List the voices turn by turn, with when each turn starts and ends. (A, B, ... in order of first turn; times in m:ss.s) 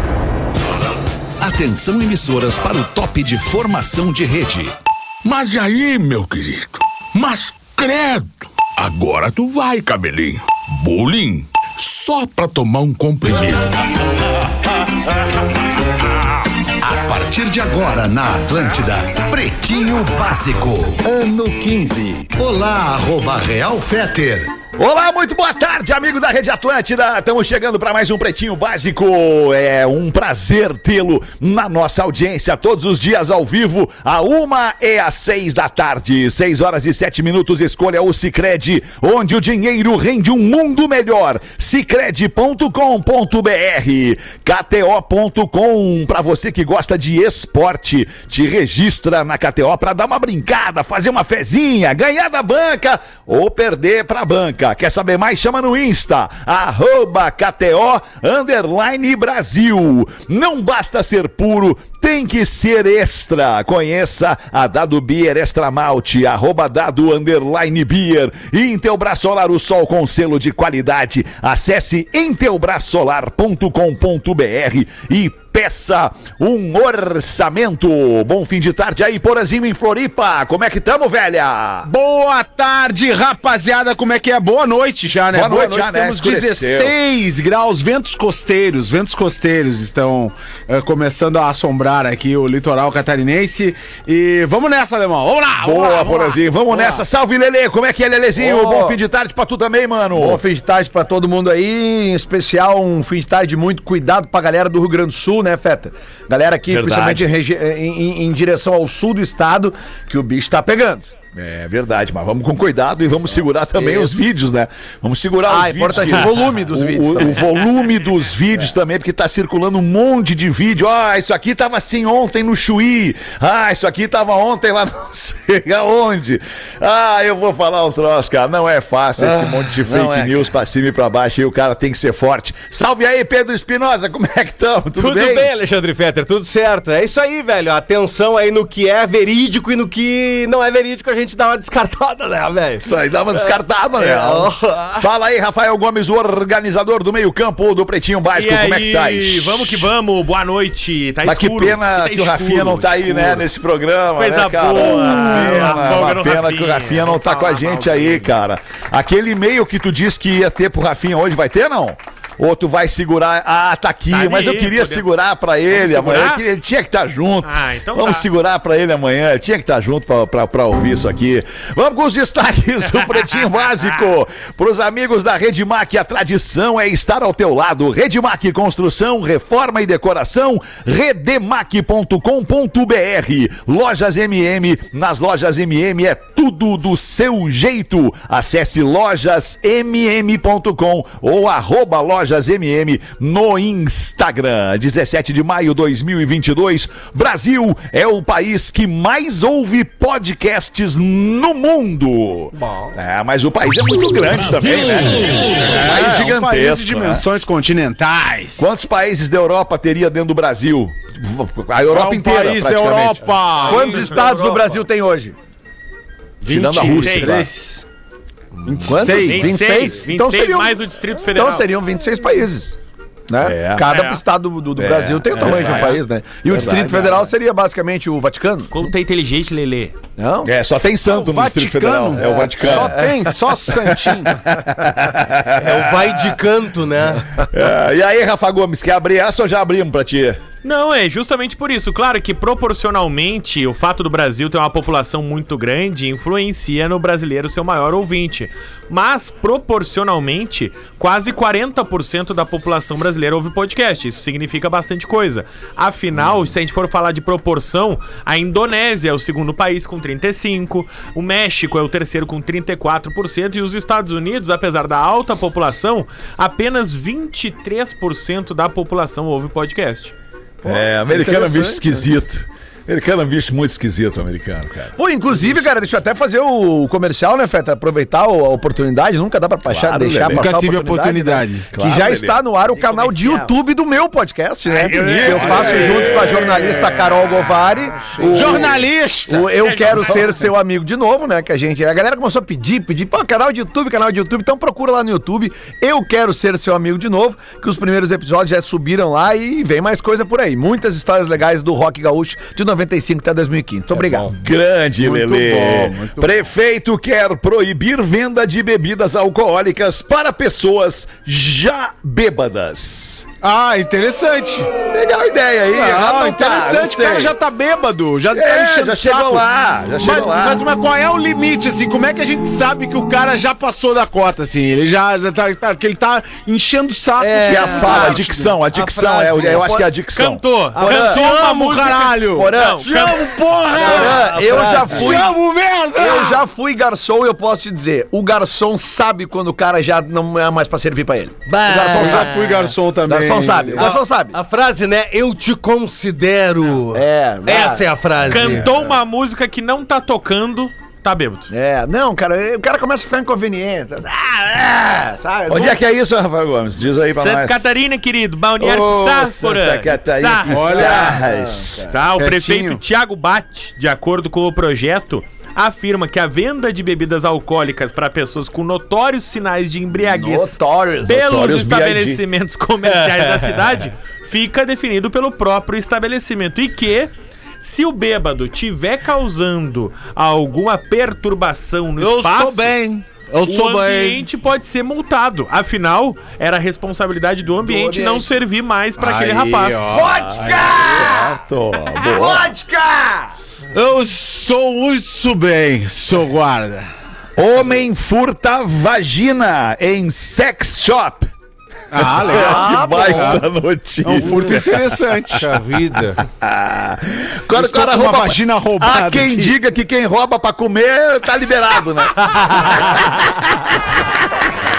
0:01.4-0:04.8 A
0:05.2-0:13.8 B
0:16.9-0:22.4 C
0:23.2-0:24.2 C
0:24.7-1:21.9 A
1:21.8-1:37.0 D
1:25.3-1:26.9 A
1:35.6-1:40.4 A
1:38.4-1:39.0 E
1:40.1-1:51.1 E
1:46.7-1:47.3 A
1:51.3-2:15.5 A
1:53.8-1:54.1 E
1:55.5-1:57.4 E
2:09.2-2:10.5 E
2:15.0-2:25.0 F
2:22.8-2:29.9 A
2:28.3-2:33.4 G
2:31.2-3:27.2 A
2:34.2-2:38.3 G
2:44.1-2:45.1 G
2:45.7-2:46.4 G
2:47.4-2:48.3 G
3:22.5-3:23.0 F
3:25.6-3:28.7 D
3:28.6-3:33.2 A
3:31.9-3:34.0 D
3:33.6-3:35.3 E
3:33.6-3:34.7 G
3:33.7-3:34.6 F
3:36.4-3:37.5 A
3:36.4-3:37.8 G
3:36.9-3:37.4 E
3:38.7-3:42.8 E
3:38.7-3:39.2 A
3:38.8-3:39.6 D
3:39.2-3:41.7 G
3:43.3-3:48.7 E
3:43.4-3:43.9 A
3:43.9-3:44.2 G
3:44.8-3:47.3 A
3:48.7-3:50.0 G
3:50.2-3:50.5 E
3:50.4-3:53.0 A
3:51.1-3:54.4 D
3:52.2-3:53.7 E
3:53.8-3:56.1 A
3:55.6-3:57.2 F
3:57.5-4:00.4 A
4:00.6-4:30.1 G
4:30.6-4:32.1 E
4:30.6-4:35.6 A
4:35.0-5:04.3 E
4:39.6-4:40.5 A
4:40.3-4:41.7 D
4:41.7-4:42.4 A
4:42.6-4:43.5 G
4:44.8-4:46.9 A
4:44.8-4:46.2 G
4:44.9-4:46.1 D
4:48.3-4:48.7 A
4:48.3-4:49.5 D
4:49.5-4:50.2 G
5:04.2-5:13.2 A
5:05.0-5:06.4 D
5:13.4-5:14.7 D
5:14.9-5:17.3 A
5:15.7-5:19.4 D
5:18.3-5:20.6 A
5:20.0-5:28.3 D
5:27.2-5:28.2 F
5:27.4-5:29.9 E
5:27.4-5:30.4 A
5:28.8-5:29.6 F
5:30.1-5:33.9 G
5:30.8-5:31.2 E
5:30.8-5:36.4 D
5:32.3-5:33.2 E
5:33.7-5:35.3 F
5:33.8-5:35.4 E
5:35.9-5:42.4 E
5:41.5-5:42.8 F
5:41.8-5:43.9 D
5:43.1-5:44.4 E
5:43.8-5:48.6 F
5:46.9-5:47.9 E
5:48.3-5:51.5 G
5:48.4-5:48.8 A
5:48.6-5:48.9 E
5:51.5-5:55.8 E
5:55.5-5:57.9 A
5:57.1-6:00.9 G
5:58.6-6:01.9 A
6:00.5-6:01.2 D
6:00.7-6:01.9 E
6:01.9-6:22.7 G
6:02.2-6:02.8 D
6:09.9-6:11.1 E
6:11.0-6:12.2 A
6:12.8-6:13.8 F
6:22.0-6:24.2 D
6:23.4-6:30.0 G
6:27.6-6:28.3 E
6:29.0-6:32.5 A
6:29.3-6:30.7 D
6:29.9-6:31.4 E
6:32.1-6:33.3 E
6:33.7-6:36.9 D
6:37.4-6:41.3 A
6:41.9-6:43.4 D
6:41.9-6:45.4 A
6:42.2-6:43.4 E
6:44.0-6:45.5 D
6:45.3-6:46.2 F
6:46.2-6:54.0 A
6:47.5-6:49.5 D